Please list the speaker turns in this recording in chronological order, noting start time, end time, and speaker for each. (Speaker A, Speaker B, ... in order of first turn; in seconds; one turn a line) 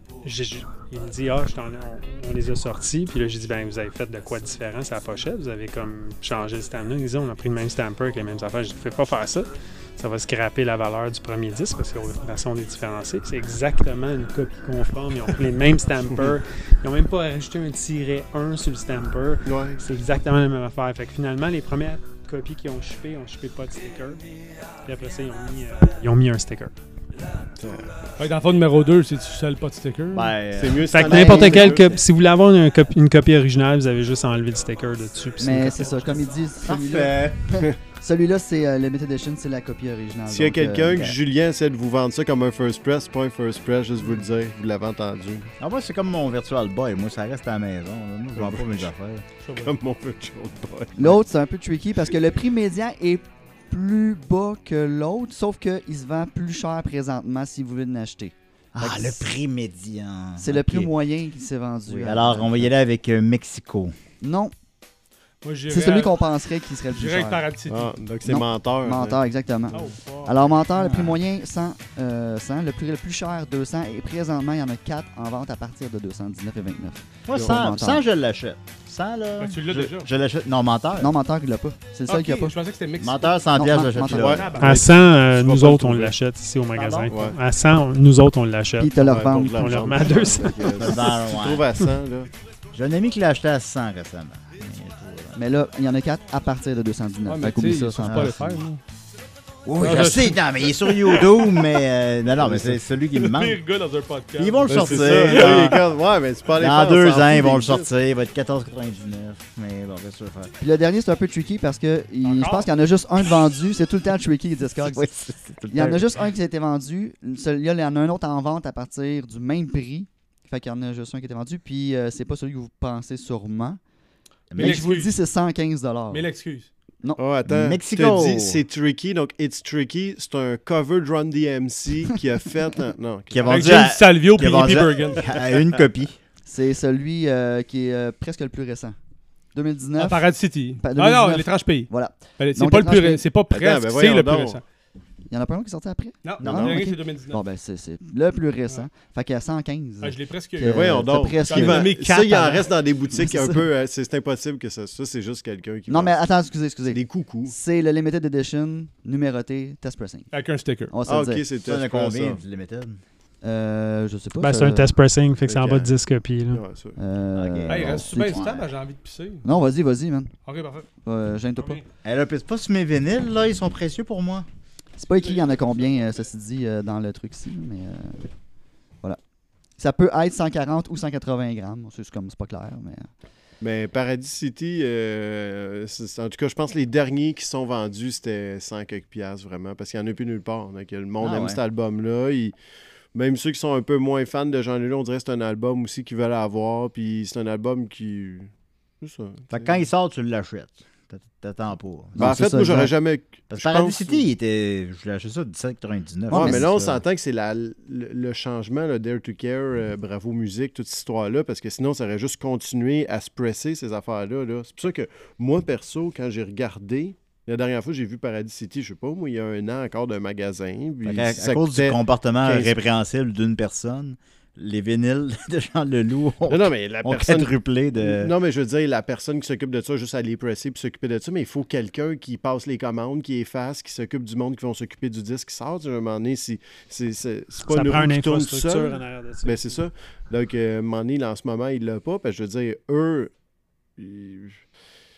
Speaker A: 0.2-24.2
Speaker B: 19.5-19.8
Speaker A: 24.8-26.7
Speaker B: 27.6-28.1
Speaker C: 28.2-30.4
Speaker D: 30.1-31.9
Speaker B: 30.5-32.0
Speaker A: 30.9-36.1
Speaker E: 31.1-31.7
Speaker E: 35.4-41.0
Speaker D: 36.6-37.5
Speaker B: 40.3-45.5
Speaker D: 45.6-49.2
Speaker B: 48.4-48.9
Speaker C: 49.4-49.7
Speaker B: 49.6-51.2
Speaker E: 51.0-59.3
Speaker D: 58.7-60.9
Speaker E: 60.4-62.7
Speaker D: 61.9-64.0
Speaker E: 64.2-64.5
Speaker C: 65.4-66.3
Speaker E: 65.7-67.5
Speaker C: 66.9-67.9
Speaker B: 67.7-69.8
Speaker E: 68.2-78.0
Speaker C: 69.7-70.5
Speaker D: 70.8-71.2
Speaker D: 77.3-81.1
Speaker B: 77.3-77.6
Speaker C: 79.4-80.1
Speaker E: 81.0-82.5
Speaker C: 82.1-83.4
Speaker D: 83.0-84.6
Speaker E: 83.5-84.6
Speaker C: 83.9-84.9
Speaker B: 84.2-86.1
Speaker A: 84.6-90.8
Speaker D: 86.8-87.1
Speaker B: 87.1-87.4
Speaker E: 88.8-90.3
Speaker B: 89.0-92.3
Speaker D: 90.8-91.7
Speaker D: 92.7-95.4
Speaker E: 95.3-98.6
Speaker C: 97.3-98.8
Speaker D: 98.0-98.4
Speaker D: 99.7-103.6
Speaker C: 99.8-101.6
Speaker B: 102.4-102.8
Speaker C: 103.2-105.8
Speaker D: 104.4-105.8
Speaker B: 104.7-107.9
Speaker D: 106.5-110.5
Speaker E: 110.6-115.1
Speaker C: 112.2-112.7
Speaker D: 114.8-116.1
Speaker E: 115.7-123.8
Speaker D: 124.5-124.9
Speaker E: 124.6-126.3
Speaker C: 124.6-125.1
Speaker C: 126.1-126.7
Speaker B: 127.2-133.7
Speaker D: 127.5-128.6
Speaker D: 133.3-136.2
Speaker C: 133.5-135.8
Speaker E: 136.5-139.0
Speaker E: 139.5-140.3
Speaker C: 140.0-144.6
Speaker E: 140.8-143.2
Speaker B: 143.5-144.6
Speaker E: 145.3-151.9
Speaker C: 146.2-147.4
Speaker D: 146.4-146.8
Speaker C: 150.0-150.8
Speaker B: 150.6-156.2
Speaker C: 151.5-152.7
Speaker E: 153.2-153.6
Speaker E: 155.9-160.3
Speaker B: 156.9-157.5
Speaker C: 160.3-160.9
Speaker E: 160.9-161.4
Speaker B: 161.1-162.4
Speaker D: 161.7-163.0
Speaker E: 163.4-164.9
Speaker A: 164.4-166.6
Speaker B: 165.5-165.9
Speaker B: 166.5-167.0
Speaker E: 167.0-168.5
Speaker D: 167.3-168.7
Speaker C: 167.7-169.4
Speaker E: 169.4-170.3
Speaker C: 170.5-170.9
Speaker E: 171.1-171.8
Speaker C: 171.6-171.8
Speaker D: 172.0-174.5
Speaker E: 175.0-178.3
Speaker E: 179.8-183.1
Speaker B: 183.6-192.6
Speaker D: 191.2-191.6
Speaker B: 193.1-198.5
Speaker B: 199.0-199.8
Speaker D: 199.5-202.3
Speaker E: 202.2-202.9
Speaker B: 202.2-204.2
Speaker D: 203.5-207.0
Speaker B: 206.3-222.8
Speaker E: 206.3-206.7
Speaker D: 221.1-228.3
Speaker B: 226.5-243.3
Speaker A: 237.7-239.8
Speaker B: 244.0-244.7